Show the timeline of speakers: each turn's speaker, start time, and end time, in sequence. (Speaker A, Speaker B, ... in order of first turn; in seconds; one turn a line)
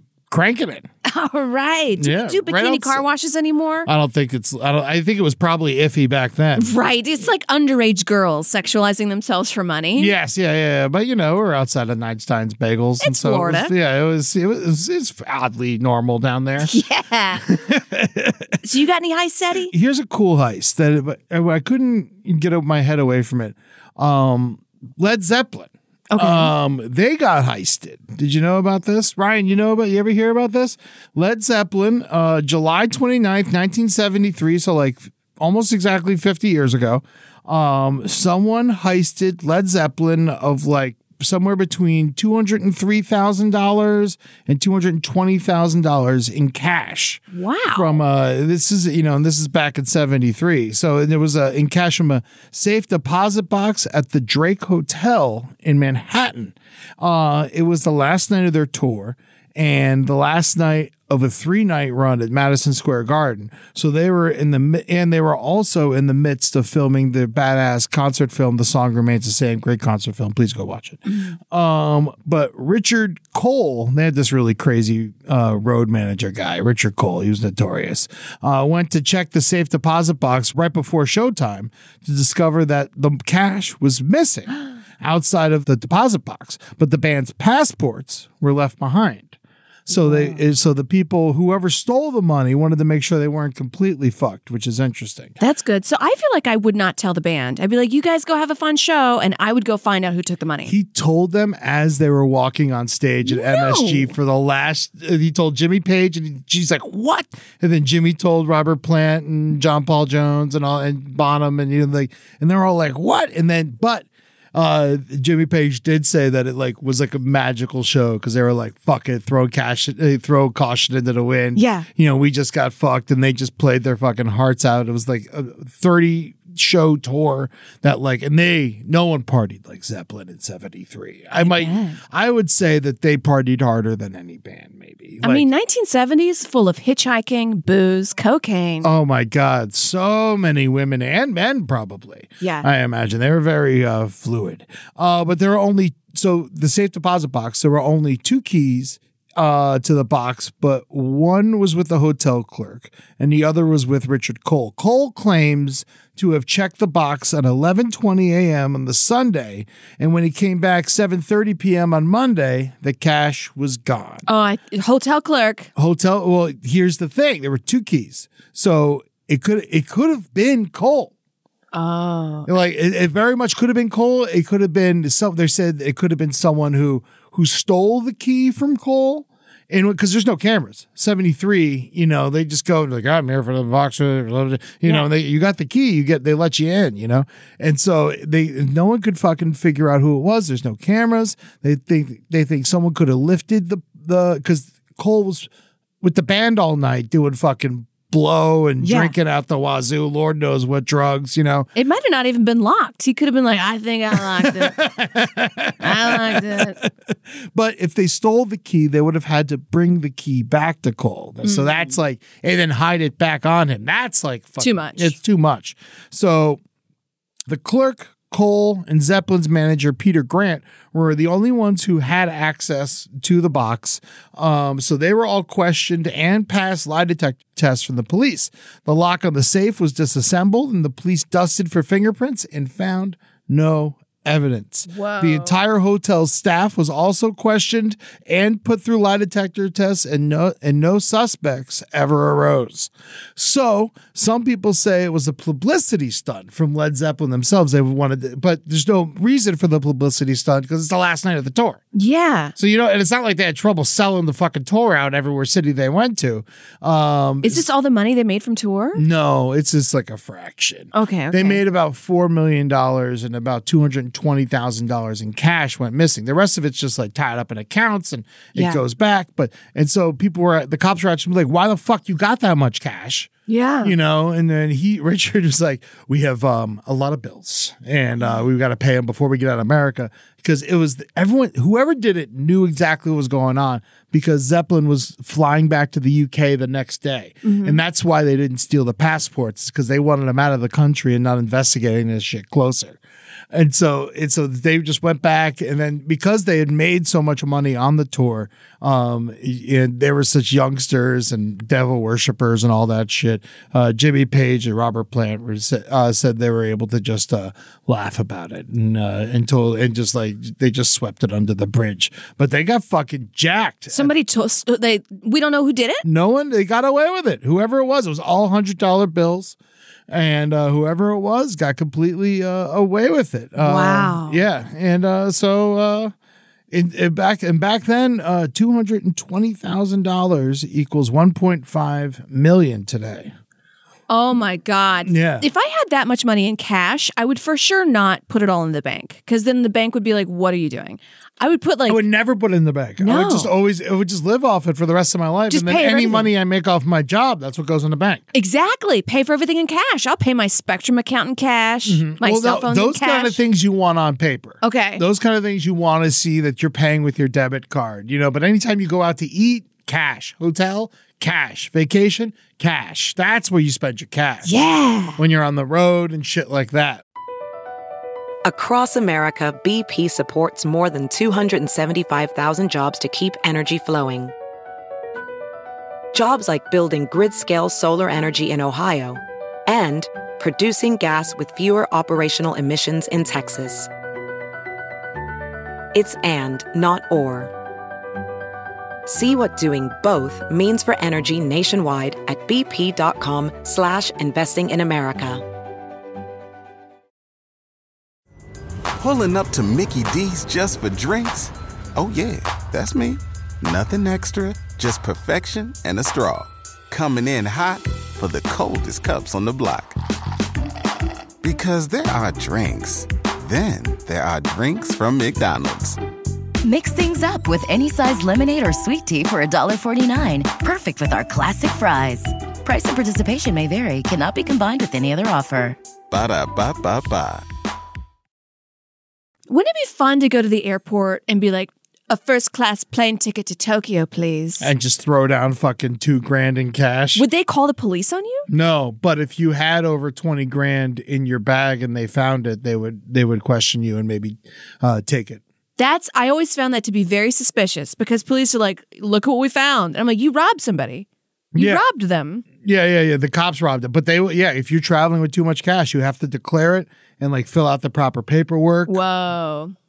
Speaker A: 0.3-0.9
Speaker B: 1.0-3.9
Speaker A: 2.0-3.0
Speaker A: 3.9-6.7
Speaker B: 6.6-10.1
Speaker A: 10.0-16.7
Speaker B: 13.0-13.7
Speaker B: 16.6-17.5
Speaker A: 17.4-18.5
Speaker B: 18.6-19.7
Speaker A: 19.7-89.3
Speaker B: 26.1-26.5
Speaker B: 47.3-48.0
Speaker A: 89.9-95.4
Speaker B: 89.9-90.4
Speaker B: 95.4-100.7
Speaker A: 100.7-135.4
Speaker B: 103.2-104.1
Speaker B: 121.5-121.9
Speaker B: 131.3-132.0
Speaker B: 135.2-138.9
Speaker A: 138.8-164.3
Speaker B: 142.4-142.7
Speaker B: 164.3-165.7
Speaker A: 165.8-171.1
Speaker B: 171.7-172.5
Speaker A: 172.4-195.5
Speaker A: 196.0-201.7
Speaker B: 198.8-199.1
Speaker B: 201.7-204.8
Speaker A: 204.1-216.6
Speaker B: 205.8-206.8
Speaker B: 211.4-212.0
Speaker B: 214.6-215.1
Speaker A: 217.5-251.8
Speaker B: 234.9-235.6
Speaker B: 251.9-252.5
Speaker A: 252.6-257.6
Speaker B: 257.4-259.0
Speaker A: 258.9-273.3
Speaker B: 260.9-261.6
Speaker B: 268.5-268.8
Speaker B: 273.5-273.9
Speaker A: 273.8-293.0
Speaker B: 287.4-287.8
Speaker A: 293.5-314.1
Speaker B: 313.9-316.0
Speaker A: 316.0-319.6
Speaker A: 320.1-326.1
Speaker B: 323.6-324.4
Speaker A: 326.7-333.3
Speaker B: 334.1-342.0
Speaker A: 335.0-335.5
Speaker A: 341.9-348.2
Speaker B: 343.0-343.5
Speaker B: 345.5-346.3
Speaker B: 348.3-353.4
Speaker A: 351.9-364.5
Speaker B: 354.6-355.0
Speaker B: 364.4-365.2
Speaker A: 365.2-367.0
Speaker C: 368.4-374.3
Speaker C: 376.1-383.9
Speaker C: 385.9-387.5
Speaker C: 389.1-395.4
Speaker D: 399.0-410.0
Speaker D: 411.4-416.0
Speaker E: 416.6-425.8
Speaker D: 426.1-427.4
Speaker B: 429.5-434.7
Speaker A: 434.6-437.2
Speaker B: 437.1-438.5
Speaker A: 438.5-445.4
Speaker B: 445.8-452.4
Speaker A: 451.5-451.8
Speaker A: 452.6-459.0
Speaker B: 458.9-459.7